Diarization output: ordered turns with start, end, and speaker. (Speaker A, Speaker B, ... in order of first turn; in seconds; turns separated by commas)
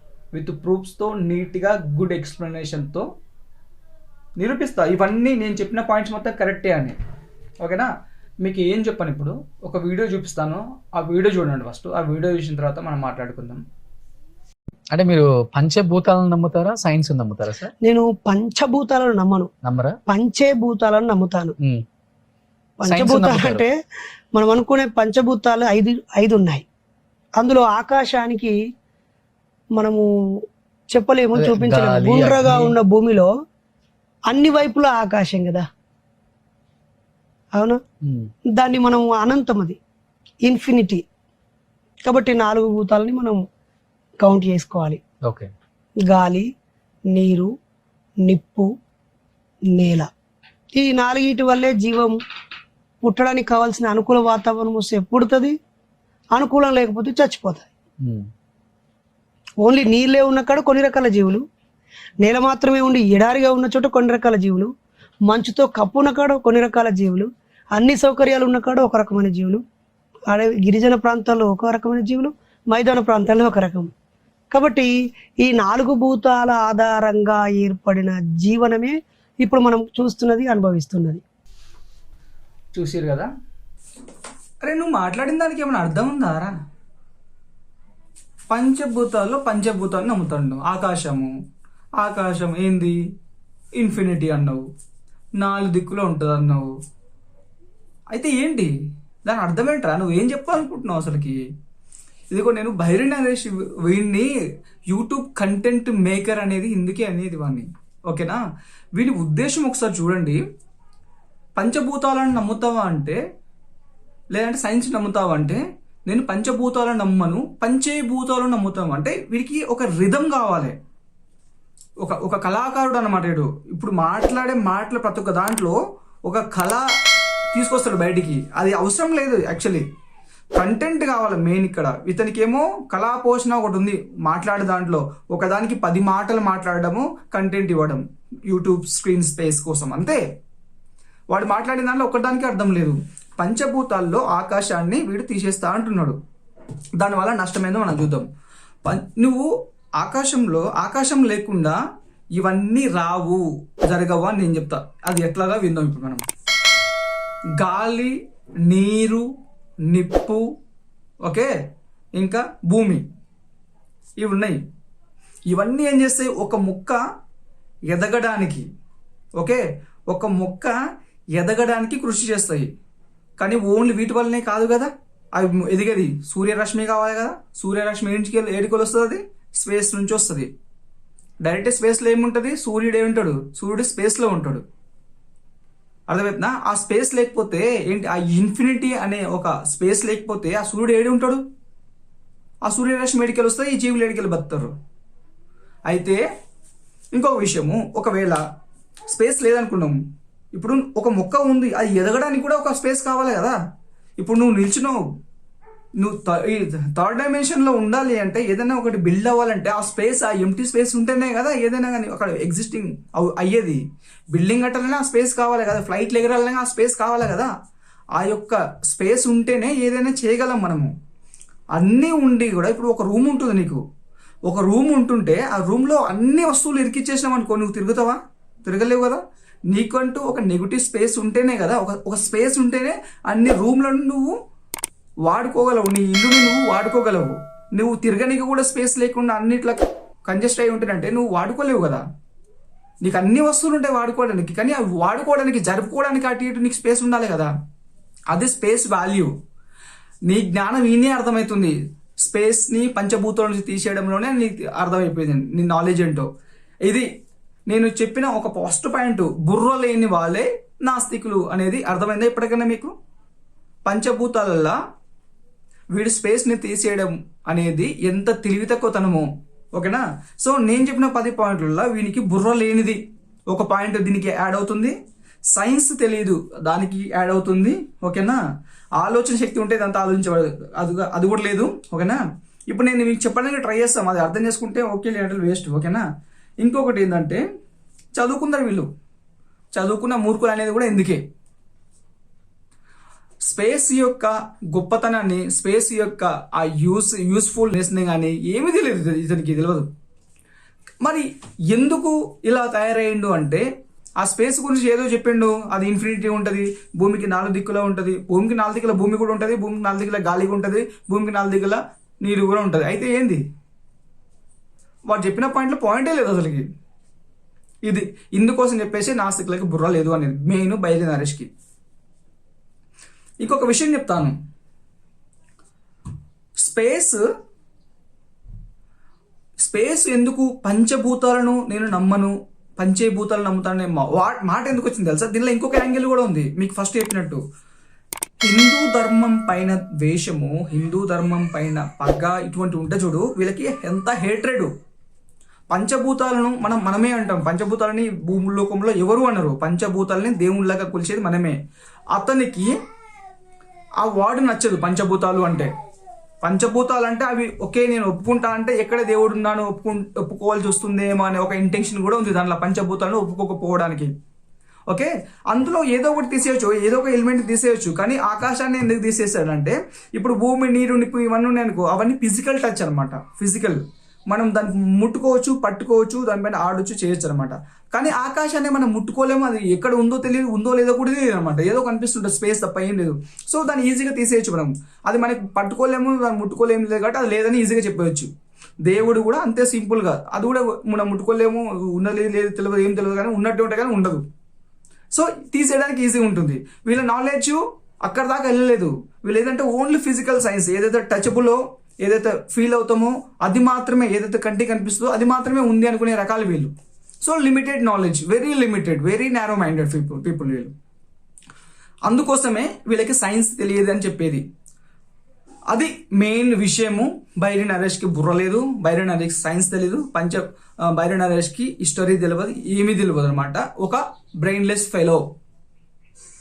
Speaker A: 0.3-3.0, Speaker A: 4.4-7.0, Speaker A: 7.6-7.9, Speaker A: 8.4-13.6, Speaker B: 14.9-17.7, Speaker C: 17.8-19.5, Speaker B: 19.6-20.0, Speaker C: 20.1-21.5, Speaker C: 22.8-23.8, Speaker B: 22.8-23.6, Speaker C: 24.4-26.6, Speaker C: 27.4-28.6, Speaker C: 29.7-30.1, Speaker C: 30.9-33.3, Speaker B: 31.3-32.7, Speaker C: 34.3-35.6, Speaker B: 38.0-38.3, Speaker C: 38.5-39.8, Speaker C: 40.4-41.0, Speaker C: 42.0-43.4, Speaker C: 44.2-45.0, Speaker B: 45.2-45.5, Speaker C: 46.0-46.5, Speaker C: 47.1-47.5, Speaker C: 48.2-48.7, Speaker C: 49.7-50.1, Speaker C: 50.7-52.2, Speaker C: 53.0-55.5, Speaker C: 56.4-57.7, Speaker B: 58.0-58.3, Speaker C: 59.6-61.4, Speaker C: 62.2-64.7, Speaker C: 65.3-69.6, Speaker C: 70.3-73.9, Speaker C: 74.5-81.2, Speaker A: 82.7-83.3, Speaker A: 84.6-86.5, Speaker A: 88.5-91.3, Speaker A: 92.0-93.0, Speaker A: 93.8-94.7, Speaker A: 95.4-96.7, Speaker A: 98.1-98.7, Speaker A: 99.2-101.4, Speaker A: 102.3-104.3, Speaker A: 104.9-108.4, Speaker A: 109.0-110.4, Speaker A: 111.6-113.2, Speaker A: 114.3-120.7, Speaker A: 122.0-126.8, Speaker A: 127.5-129.8, Speaker A: 130.6-140.2, Speaker A: 141.3-146.2, Speaker A: 147.0-148.3, Speaker A: 148.8-151.8, Speaker A: 152.4-156.2, Speaker A: 157.6-159.3, Speaker A: 159.9-160.4, Speaker A: 161.2-161.5, Speaker A: 162.2-163.0, Speaker A: 164.2-164.6, Speaker A: 165.5-167.0, Speaker A: 167.9-168.7, Speaker A: 169.4-170.7, Speaker A: 171.3-172.7, Speaker A: 173.4-180.5, Speaker A: 181.4-184.6, Speaker A: 186.1-191.4, Speaker A: 192.7-194.7, Speaker A: 195.9-196.2, Speaker A: 197.1-198.4, Speaker A: 199.1-200.0, Speaker A: 200.5-203.6, Speaker A: 204.2-205.0, Speaker A: 206.0-213.8, Speaker A: 214.3-217.5, Speaker A: 218.2-220.9, Speaker A: 221.8-223.8, Speaker A: 224.4-234.3, Speaker A: 235.2-242.0, Speaker A: 243.0-247.5, Speaker A: 248.3-249.3, Speaker A: 250.3-256.3, Speaker A: 257.7-262.9, Speaker A: 263.9-264.8, Speaker A: 265.9-273.0, Speaker A: 273.5-274.9, Speaker A: 275.5-278.4, Speaker A: 279.0-286.0, Speaker A: 286.6-287.4, Speaker A: 288.2-288.9, Speaker A: 289.7-291.2, Speaker A: 293.5-299.9, Speaker A: 301.0-303.6, Speaker A: 304.2-313.4, Speaker A: 315.1-316.6, Speaker A: 317.9-321.5, Speaker A: 323.4-324.3, Speaker A: 326.6-327.2, Speaker A: 329.6-337.4, Speaker A: 338.4-344.7, Speaker A: 345.7-351.6, Speaker A: 352.1-352.7, Speaker A: 354.0-355.7, Speaker A: 356.4-364.1, Speaker A: 364.9-388.3, Speaker A: 388.8-394.2, Speaker A: 395.1-406.7, Speaker A: 407.2-410.7, Speaker A: 412.1-414.4, Speaker A: 415.7-425.2